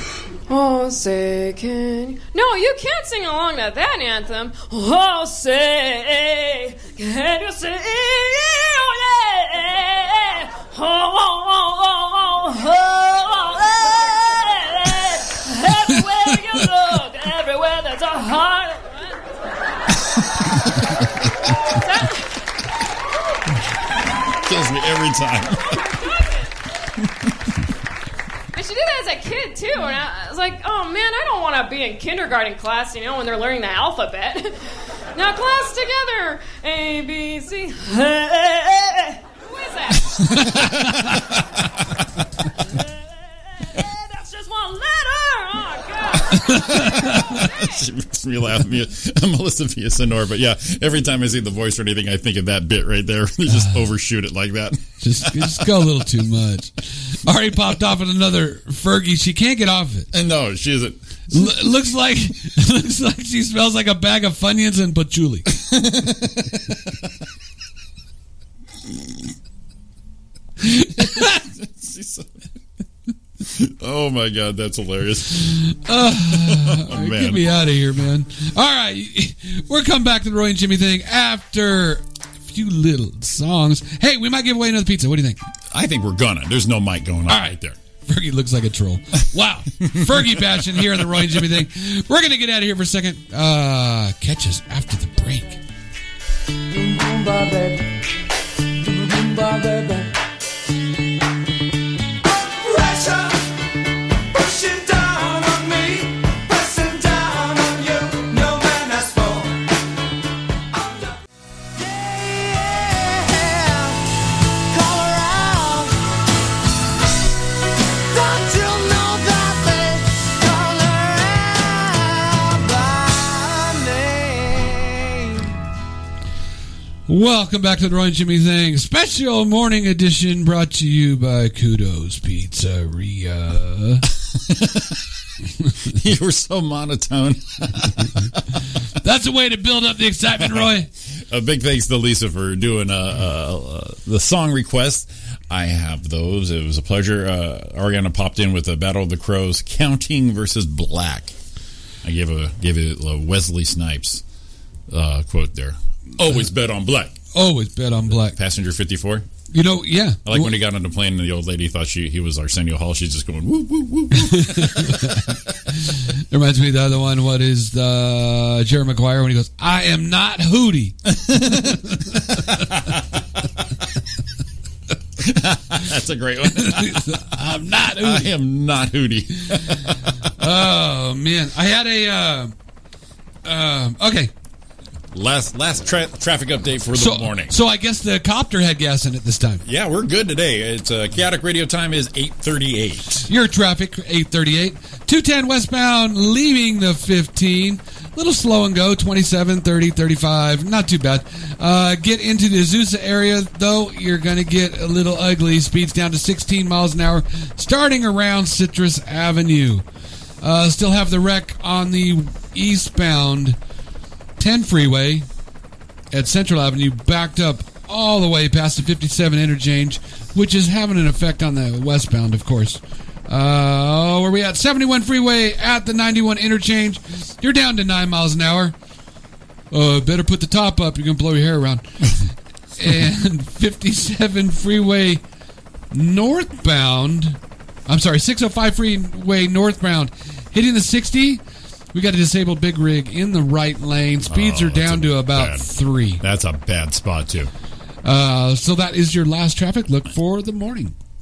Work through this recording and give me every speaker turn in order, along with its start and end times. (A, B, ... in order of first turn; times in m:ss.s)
0:00.5-0:19.3 A
0:20.3-0:20.7 B
0:21.6-0:22.4 A
0:24.3-0:25.8 B
0:25.5-0:26.5 A
0:28.5-0:40.3 A
0:40.3-0:41.2 B
0:40.3-0:41.2 C
0:43.6-0:47.8 A
0:46.3-0:47.4 C
0:46.7-0:56.0 B
0:53.5-0:53.8 C
0:55.0-1:00.1 C
1:00.1-1:01.5 B
1:01.3-1:05.5 C
1:05.5-1:07.1 B
1:10.6-1:11.4 C
1:11.0-1:12.3 B
1:13.4-1:15.7 B
1:15.6-1:25.4 C
1:16.3-1:17.6 B
1:25.7-1:27.8 B
1:27.3-1:35.6 C
1:29.8-1:31.6 B
1:36.7-1:37.9 D
1:38.8-1:40.1 D
1:42.2-1:43.6 D
1:44.3-1:49.7 D
1:50.7-1:51.2 D
1:51.8-1:54.0 D
1:54.7-1:56.0 D
1:58.1-2:05.6 D
2:07.1-2:14.1 C
2:14.2-2:15.0 B
2:15.8-2:18.6 B
2:18.9-2:20.9 C
2:21.1-2:31.3 B
2:32.0-2:34.2 B
2:34.9-2:37.2 B
2:37.3-2:38.4 C
2:38.2-2:39.3 B
2:39.5-2:40.5 C
2:40.2-2:45.4 B
2:44.1-2:52.5 C
2:51.1-2:53.0 B
2:55.2-2:57.3 B
2:56.5-2:58.3 C
2:57.9-3:00.2 B
3:00.4-3:02.5 C
3:03.4-3:04.3 C
3:05.1-3:07.5 B
3:06.9-3:09.6 C
3:09.6-3:13.3 B
3:13.3-3:29.8 C
3:30.4-3:33.6 C
3:34.4-3:35.3 C
3:36.1-3:48.7 C
3:49.7-3:52.1 C
3:52.8-3:55.2 C
3:55.9-4:01.4 C
4:01.9-4:06.2 C
4:04.2-4:07.5 B
4:08.0-4:10.9 C